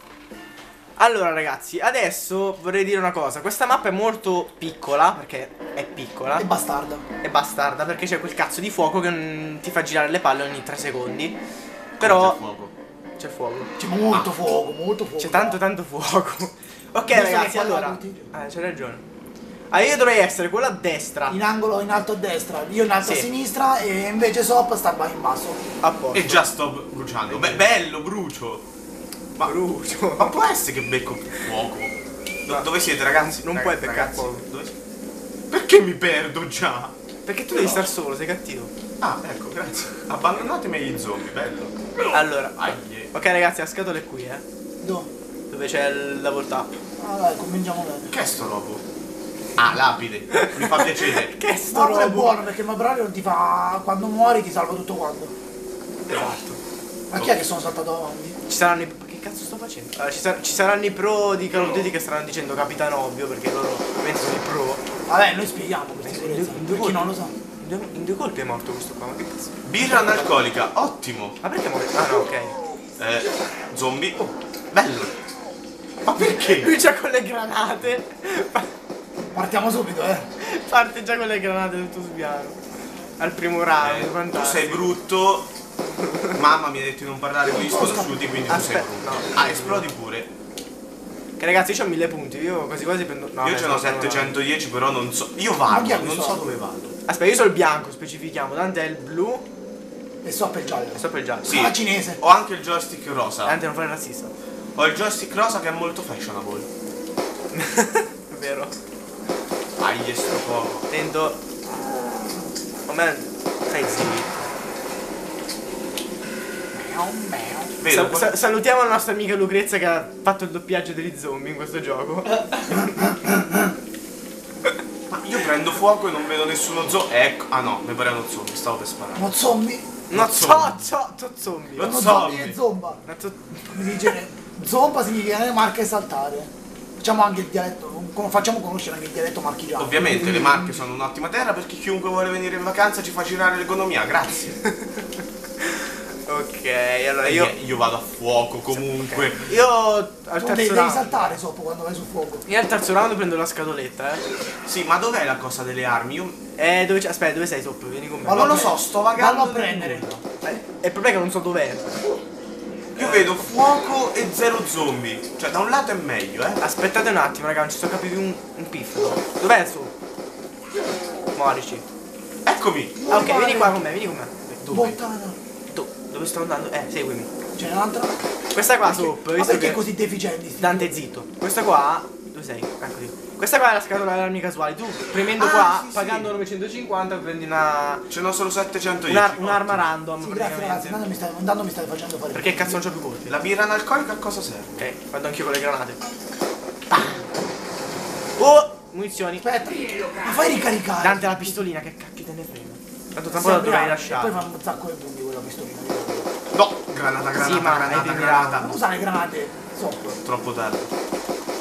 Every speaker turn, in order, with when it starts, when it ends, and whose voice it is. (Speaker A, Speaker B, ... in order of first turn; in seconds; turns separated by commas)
Speaker A: 1.0-6.5, Speaker B: 6.3-7.0, Speaker A: 7.2-11.4, Speaker A: 12.0-12.4, Speaker C: 12.0-12.7, Speaker A: 13.2-13.7, Speaker B: 13.8-15.6, Speaker A: 15.2-19.0, Speaker B: 17.1-18.3, Speaker A: 19.7-21.4, Speaker B: 21.3-25.6, Speaker A: 23.0-23.3, Speaker A: 25.8-26.4, Speaker C: 26.1-28.6, Speaker A: 27.3-27.6, Speaker A: 29.4-30.3, Speaker C: 30.2-31.9, Speaker C: 32.4-34.7, Speaker A: 32.5-34.4, Speaker C: 35.5-36.9, Speaker A: 37.2-38.7, Speaker C: 39.0-41.7, Speaker A: 42.1-44.4, Speaker C: 42.6-43.1, Speaker B: 44.8-45.1, Speaker A: 45.5-46.7, Speaker B: 47.0-48.1, Speaker C: 48.1-48.8, Speaker C: 49.6-51.3, Speaker A: 50.3-52.4, Speaker B: 51.7-55.3, Speaker A: 56.1-56.6, Speaker B: 57.1-58.4, Speaker C: 57.1-57.4, Speaker A: 58.5-64.8, Speaker B: 65.1-67.3, Speaker A: 66.0-69.5, Speaker C: 69.6-71.3, Speaker A: 71.4-72.5, Speaker C: 73.0-74.2, Speaker C: 74.7-75.1, Speaker C: 76.0-76.7, Speaker A: 76.1-78.7, Speaker B: 79.3-80.3, Speaker A: 80.4-82.6, Speaker A: 83.2-84.9, Speaker C: 83.8-85.5, Speaker C: 86.3-90.3, Speaker B: 87.4-88.4, Speaker A: 88.5-89.8, Speaker A: 91.4-94.3, Speaker C: 93.4-96.9, Speaker B: 95.7-96.4, Speaker A: 97.1-99.4, Speaker B: 100.2-102.2, Speaker A: 101.0-101.5, Speaker C: 101.4-103.6, Speaker A: 103.4-104.3, Speaker C: 104.8-106.7, Speaker A: 107.5-108.7, Speaker C: 109.8-110.8, Speaker A: 110.9-111.4, Speaker A: 112.9-114.4, Speaker B: 116.7-117.7, Speaker C: 117.8-118.3, Speaker A: 117.8-123.2, Speaker C: 125.1-129.3, Speaker B: 129.1-130.0, Speaker A: 130.1-131.9, Speaker C: 130.1-130.8, Speaker C: 131.8-132.6, Speaker B: 131.8-133.0, Speaker A: 133.1-134.1, Speaker B: 133.7-140.3, Speaker C: 139.8-144.6, Speaker A: 140.0-140.7, Speaker A: 145.6-147.5, Speaker C: 147.2-149.6, Speaker A: 148.7-151.4, Speaker B: 150.4-152.4, Speaker A: 152.4-154.2, Speaker C: 154.7-156.4, Speaker A: 156.6-158.7, Speaker B: 158.2-160.1, Speaker C: 158.3-160.2, Speaker A: 160.4-161.9, Speaker A: 162.9-163.4, Speaker C: 162.9-166.6, Speaker A: 166.6-169.9, Speaker A: 171.3-171.8, Speaker C: 172.4-172.9, Speaker B: 172.9-173.8, Speaker A: 173.1-174.3, Speaker C: 174.5-175.0, Speaker B: 174.7-175.4, Speaker A: 175.7-177.3, Speaker B: 177.6-178.2, Speaker A: 178.5-179.8, Speaker B: 178.8-180.9, Speaker A: 180.6-188.0, Speaker C: 185.2-186.3, Speaker C: 188.1-189.9, Speaker A: 189.1-191.0, Speaker B: 190.2-192.8, Speaker A: 192.3-193.3, Speaker C: 193.2-194.8, Speaker A: 194.8-196.0, Speaker A: 196.9-197.2, Speaker A: 198.4-199.4, Speaker B: 199.4-201.6, Speaker A: 201.0-204.4, Speaker B: 203.3-206.3, Speaker C: 206.5-208.7, Speaker A: 207.3-208.7, Speaker B: 208.5-210.2, Speaker C: 210.2-210.9